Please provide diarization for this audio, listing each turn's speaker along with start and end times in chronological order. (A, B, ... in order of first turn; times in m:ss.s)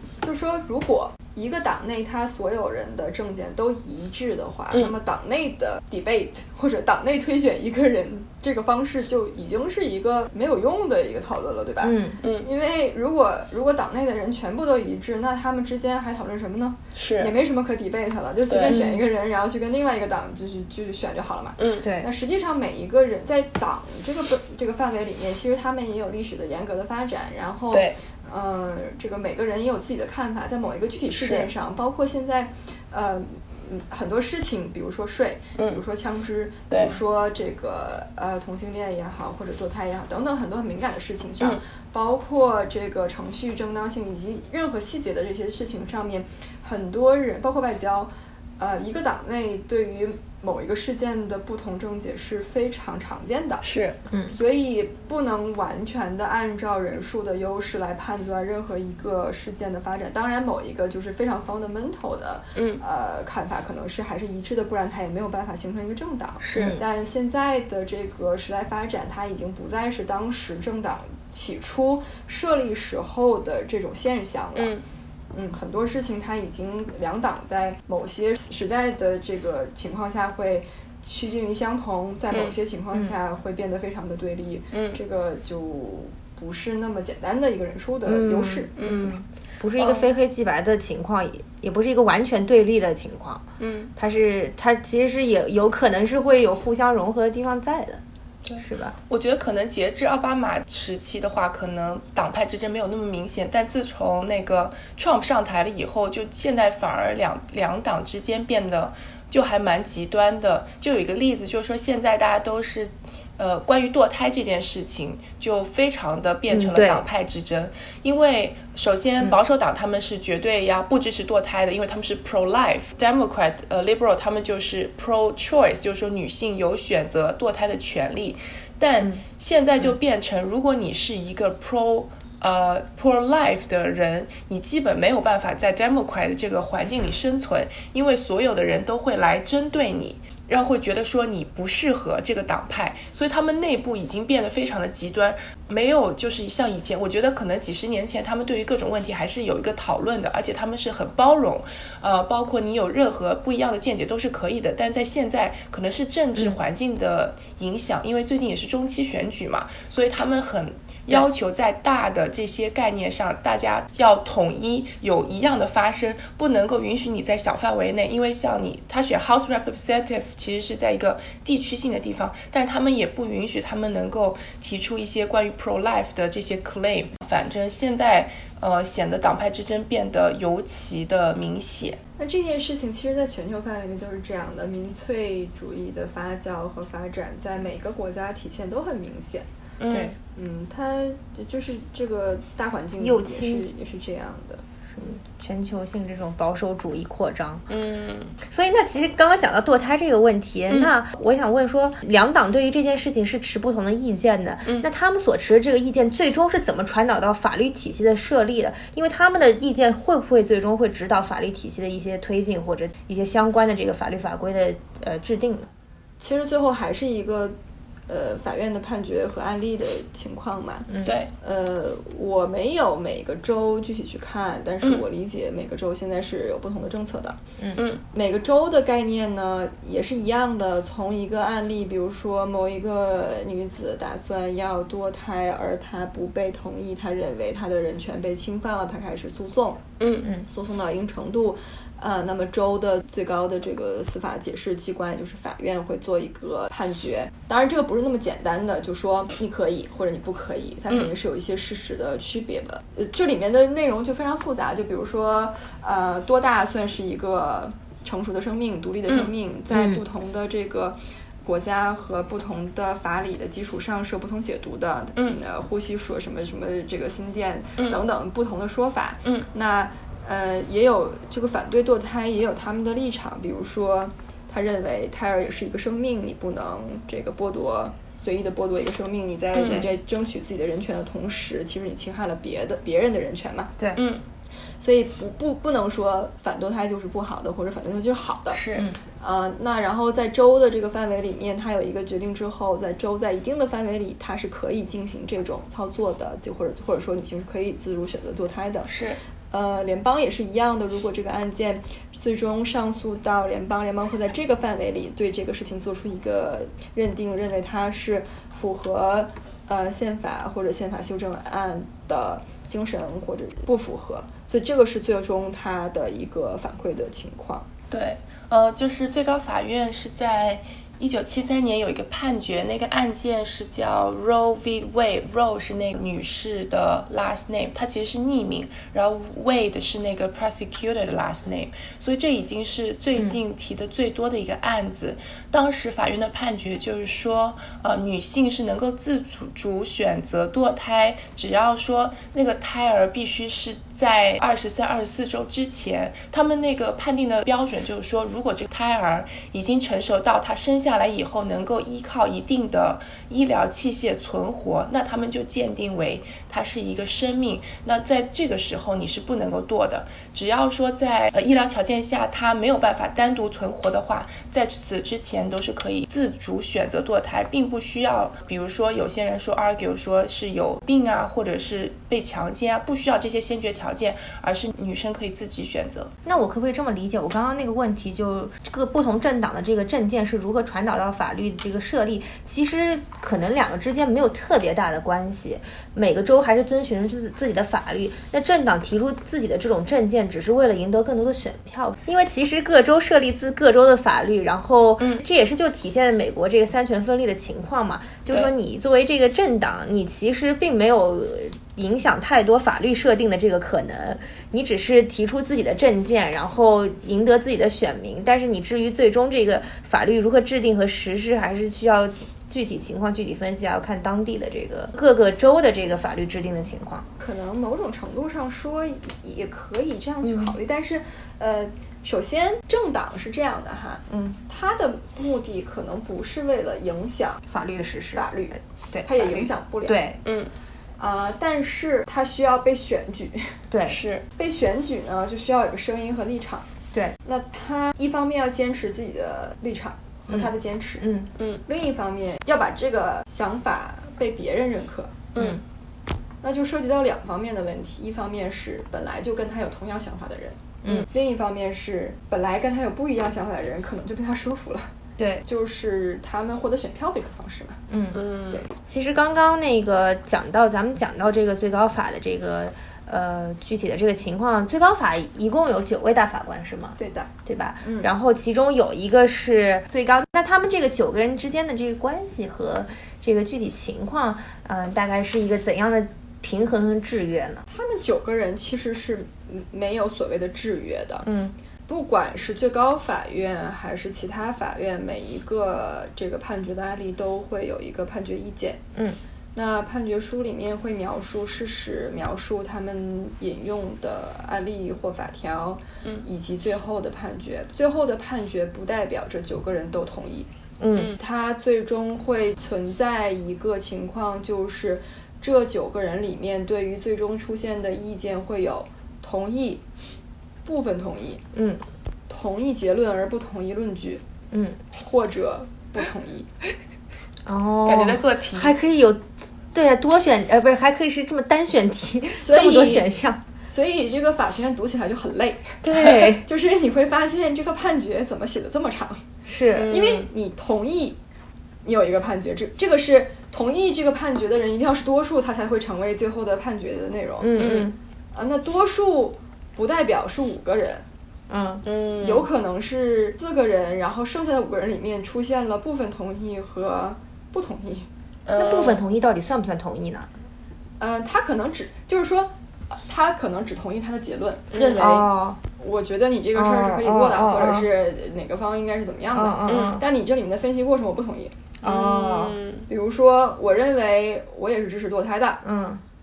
0:00.2-0:53.7 A
0:11.8-0:12.2 B
0:12.2-0:12.5 C
0:17.0-0:17.3 C
0:18.5-0:18.8 C
0:18.6-0:19.0 B
0:21.8-0:22.1 B
0:27.7-0:28.0 C
0:31.2-0:31.5 C
0:36.7-0:37.0 C
0:53.6-0:54.0 C
0:54.1-0:54.4 B
0:54.3-1:14.7 A
1:06.4-1:06.8 C
1:06.6-1:06.8 B
1:14.6-1:14.8 C
1:15.3-1:28.8 A
1:24.7-1:25.0 C
1:28.1-1:33.4 B
1:28.8-1:29.2 C
1:29.8-1:30.1 C
1:33.6-1:33.9 C
1:34.0-1:38.0 B
1:38.4-3:02.0 C
1:38.6-1:39.0 B
1:56.5-1:57.0 B
3:02.2-3:09.5 A
3:09.8-3:10.1 C
3:09.9-3:10.2 B
3:10.4-3:14.6 A
3:13.0-3:13.7 B
3:14.9-3:17.6 B
3:17.7-3:18.4 C
3:18.4-3:35.7 B
3:36.2-3:37.6 A
3:38.1-3:47.4 A
3:41.0-3:41.3 C
3:47.8-3:48.0 C
3:48.1-3:59.8 A
4:00.0-4:00.3 C
4:00.5-4:43.7 A
4:19.7-4:20.0 B
4:39.6-4:39.9 C
4:44.0-4:44.2 C
4:44.8-4:48.6 A
4:48.5-4:48.9 C
4:49.2-4:59.0 A
4:58.9-4:59.2 C
4:59.5-5:17.7 A
5:17.9-6:16.1 C
6:16.2-6:57.1 B
6:35.0-6:35.2 C
6:57.2-7:07.4 A
7:00.2-7:00.5 B
7:07.5-7:08.3 B
7:08.1-7:10.1 A
7:08.9-7:10.2 B
7:10.2-7:10.5 C
7:11.0-7:13.5 A
7:13.7-7:14.0 B
7:13.9-7:14.2 C
7:14.4-7:16.7 A
7:17.2-7:21.1 A
7:21.0-7:21.3 B
7:21.7-7:25.2 A
7:25.4-7:25.6 C
7:25.4-7:25.6 B
7:26.4-7:34.9 A
7:35.2-7:35.4 B
7:35.4-7:37.8 A
7:37.9-7:57.6 B
7:38.1-7:38.6 C
7:47.0-7:47.3 A
7:47.8-7:48.1 A
7:57.7-8:01.3 A
8:01.2-8:01.6 B
8:01.9-8:08.8 A
8:09.6-8:20.5 A
8:20.8-8:21.1 B
8:21.2-8:29.8 A
8:30.6-8:31.4 A
8:31.5-8:31.8 B
8:32.3-8:34.2 A
8:34.5-8:34.8 B
8:34.9-8:36.5 A
8:37.5-8:43.4 B
8:37.8-8:38.8 C
8:42.4-8:43.1 A
8:43.7-8:49.2 A
8:45.8-8:46.5 B
8:49.5-8:50.0 B
8:49.8-8:50.3 C
8:49.9-8:51.2 A
8:51.8-8:57.7 A
8:57.4-8:58.0 B
8:57.6-8:57.9 C
8:58.3-9:01.0 A
9:01.5-9:01.8 B
9:01.8-9:02.5 C
9:02.2-9:08.1 A
9:08.5-9:09.0 C
9:08.6-9:10.3 B
9:11.0-9:21.6 A
9:14.7-9:15.0 C
9:15.0-9:15.6 B
9:16.6-9:17.9 B
9:19.3-9:20.0 B
9:19.7-9:20.0 C
9:21.8-9:22.6 B
9:21.8-9:22.9 C
9:22.9-9:25.6 A
9:25.6-9:26.0 B